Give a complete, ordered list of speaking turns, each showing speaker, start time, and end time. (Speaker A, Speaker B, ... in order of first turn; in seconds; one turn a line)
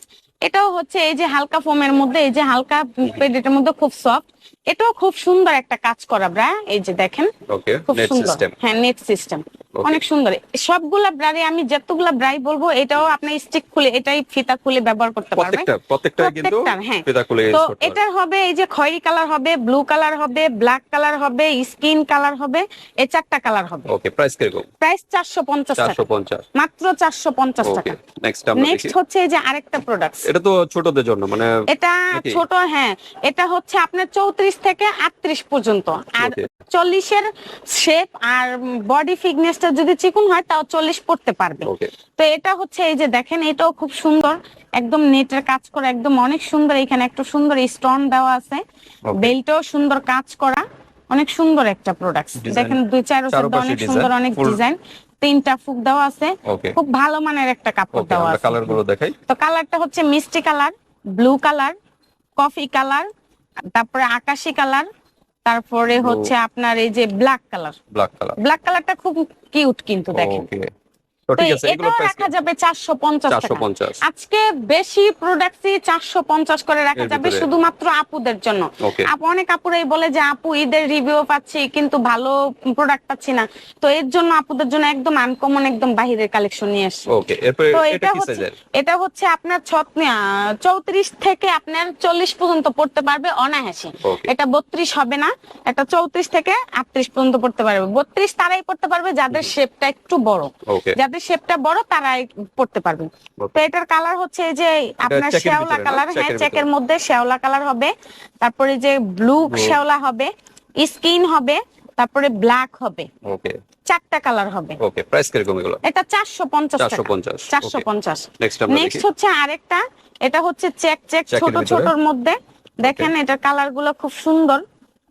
Speaker A: 0.5-7.3
Speaker B: 7.5-8.6
Speaker A: 7.9-15.7
Speaker B: 9.8-10.0
Speaker B: 15.4-18.0
Speaker A: 16.2-23.9
Speaker B: 23.9-24.7
Speaker A: 24.8-26.0
Speaker B: 25.8-26.4
Speaker A: 26.6-28.0
Speaker B: 27.6-28.9
Speaker A: 28.6-30.3
Speaker B: 30.3-32.4
Speaker A: 31.7-48.6
Speaker B: 36.2-36.5
Speaker B: 41.6-41.9
Speaker B: 49.1-49.3
Speaker A: 49.1-61.8
Speaker B: 52.4-52.8
Speaker B: 53.3-54.6
Speaker B: 56.5-56.8
Speaker B: 57.9-59.2
Speaker A: 62.4-63.1
Speaker A: 63.8-64.9
Speaker A: 65.5-67.8
Speaker B: 66.0-66.3
Speaker B: 67.9-68.4
Speaker A: 68.4-70.5
Speaker B: 70.1-70.7
Speaker B: 71.3-72.3
Speaker A: 71.4-87.1
Speaker B: 73.3-74.0
Speaker B: 77.0-77.5
Speaker B: 78.8-79.1
Speaker B: 87.1-88.5
Speaker A: 87.7-113.1
Speaker B: 94.0-94.3
Speaker B: 100.7-101.0
Speaker B: 103.4-103.6
Speaker B: 105.0-106.7
Speaker B: 109.5-109.8
Speaker B: 113.2-113.6
Speaker A: 113.9-114.8
Speaker B: 114.8-115.8
Speaker A: 115.8-124.6
Speaker B: 116.8-117.9
Speaker B: 118.4-119.1
Speaker B: 121.3-121.9
Speaker B: 122.8-123.1